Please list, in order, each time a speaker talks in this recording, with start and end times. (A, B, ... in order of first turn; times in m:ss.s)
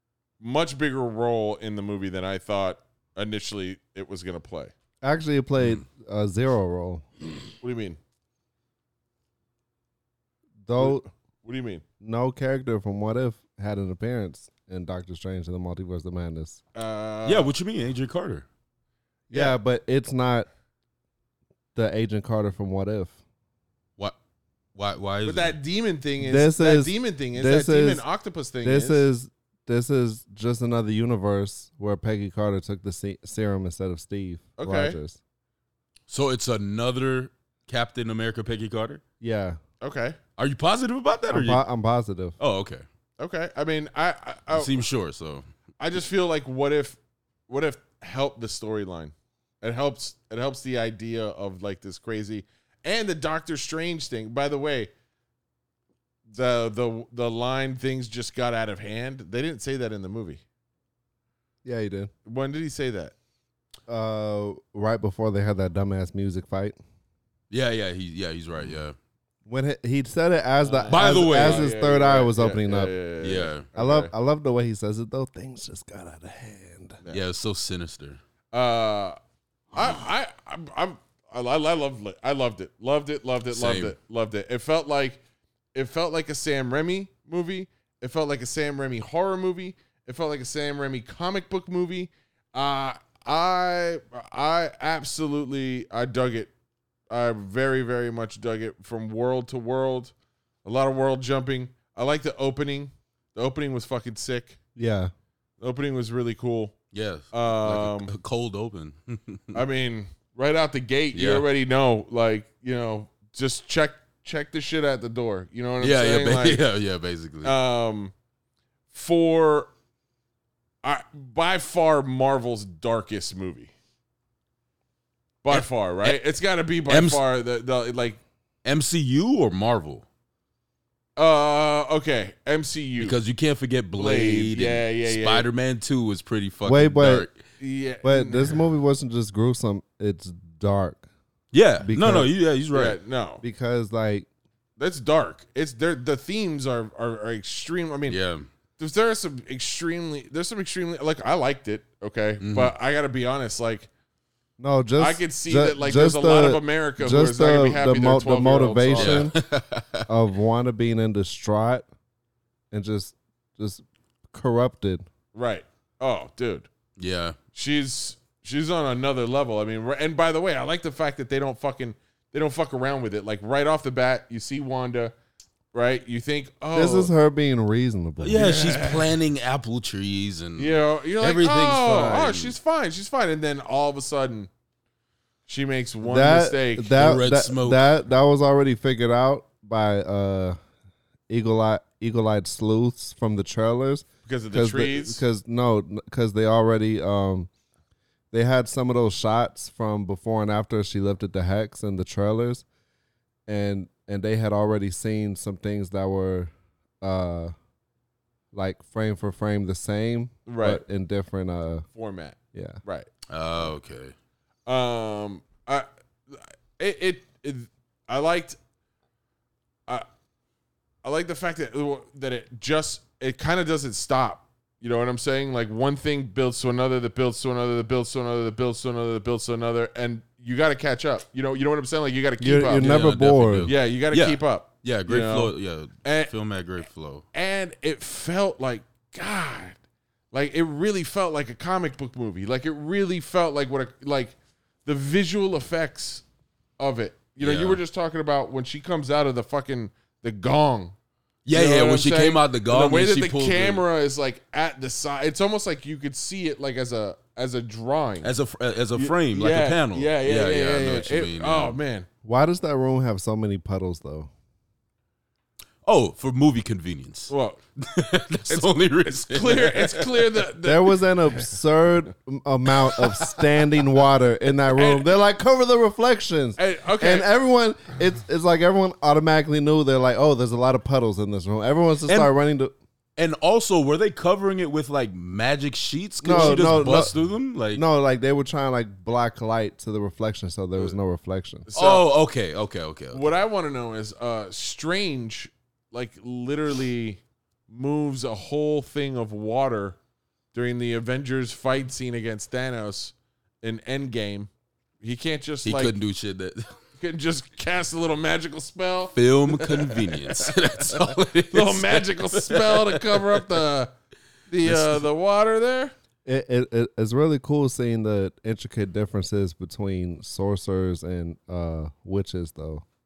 0:00.4-0:04.7 A
0:05.0-0:07.1 B
0:07.6-0:08.0 A
0:10.7-0:11.0 B
0:10.8-0:11.8 A
0:12.0-0:16.6 B
0:16.8-0:17.5 A
0:17.3-0:18.5 C
0:19.3-0:19.6 A
0:19.3-0:20.5 B
0:21.8-0:23.2 B
0:24.8-0:25.5 C
0:25.2-0:29.0 A
0:26.2-0:28.0 B
0:28.6-0:35.2 B
0:34.6-0:35.0 A
0:36.1-0:39.0 C
0:39.2-0:39.6 B
0:39.8-0:40.2 A
0:40.4-0:41.6 C
0:41.3-0:42.4 B
0:42.4-0:42.8 C
0:43.2-0:44.8 A
0:44.5-0:45.5 C
0:45.8-0:47.0 A
0:47.5-0:54.9 A
0:56.3-1:00.4 A
1:01.6-1:02.1 B
1:02.2-1:03.1 A
1:03.9-1:06.8 B
1:07.5-1:09.0 C
1:09.5-1:12.9 B
1:10.6-1:14.1 A
1:10.9-1:11.7 C
1:13.2-1:13.6 C
1:13.8-1:17.0 B
1:17.1-1:18.2 C
1:18.5-1:19.2 A
1:19.7-1:25.2 A
1:23.5-1:24.0 C
1:25.7-1:36.5 A
1:37.1-1:40.1 A
1:40.6-1:44.6 A
1:44.8-1:45.1 B
1:45.6-1:46.8 A
1:46.9-1:49.6 C
1:47.3-1:48.1 A
1:49.5-1:56.6 A
1:51.1-1:51.5 C
1:55.8-1:57.5 C
1:57.4-1:58.1 A
1:58.9-1:59.7 A
2:00.8-2:03.7 A
2:05.4-2:08.2 A
2:05.5-2:06.2 C
2:06.9-2:07.2 C
2:08.6-2:10.0 C
2:11.2-2:13.2 A
2:13.0-2:17.4 C
2:14.0-2:15.5 A
2:16.6-2:17.3 B
2:17.6-2:18.6 A
2:18.0-2:21.0 B
2:21.5-2:23.0 C
2:21.8-2:22.3 B
2:22.7-2:23.4 A
2:23.4-2:24.3 B
2:24.8-2:28.2 A
2:28.1-2:28.5 C
2:28.8-2:33.9 A
2:32.4-2:32.7 C
2:34.6-2:39.4 B
2:35.0-2:39.3 A
2:39.0-2:40.1 C
2:40.1-2:41.9 B
2:42.7-2:45.1 B
2:45.3-2:46.7 A
2:47.0-2:47.4 C
2:47.5-2:55.1 A
2:55.7-2:57.1 A
2:56.7-2:58.5 B
2:58.2-3:02.5 C
2:58.4-2:59.1 A
3:00.6-3:04.5 A
3:05.5-3:07.1 A
3:06.0-3:10.6 B
3:07.0-3:07.9 C
3:11.3-3:17.5 B
3:14.2-3:15.2 A
3:18.3-3:22.6 B
3:23.5-3:27.5 B
3:28.5-3:31.9 B
3:30.5-3:30.8 A
3:31.9-3:33.1 A
3:32.5-3:32.8 B
3:33.3-3:34.1 C
3:34.7-3:38.6 A
3:41.0-3:53.0 A
3:52.4-3:53.7 B
3:52.8-3:57.2 C
3:53.6-3:56.3 A
3:57.3-3:59.8 A
4:00.3-4:06.2 A
4:06.8-4:10.9 A
4:07.4-4:07.8 C
4:11.4-4:13.8 C
4:11.5-4:18.3 A
4:18.2-4:21.8 C
4:19.0-4:22.1 A
4:22.2-4:24.3 B
4:25.8-4:30.3 C
4:27.3-4:27.6 A
4:29.2-4:31.0 A
4:30.6-4:42.7 B
4:34.8-4:35.0 A
4:36.6-4:37.3 A
4:43.2-4:47.8 C
4:46.2-4:47.1 B
4:47.7-4:51.7 B
4:51.7-4:52.1 A
4:51.8-4:53.3 C
4:53.1-5:00.0 A
5:00.5-5:04.5 A
5:05.0-5:05.9 A
5:05.6-5:06.8 C
5:07.0-5:13.9 A
5:09.2-5:13.3 C
5:14.5-5:15.9 A
5:14.6-5:15.0 C
5:16.3-5:22.8 B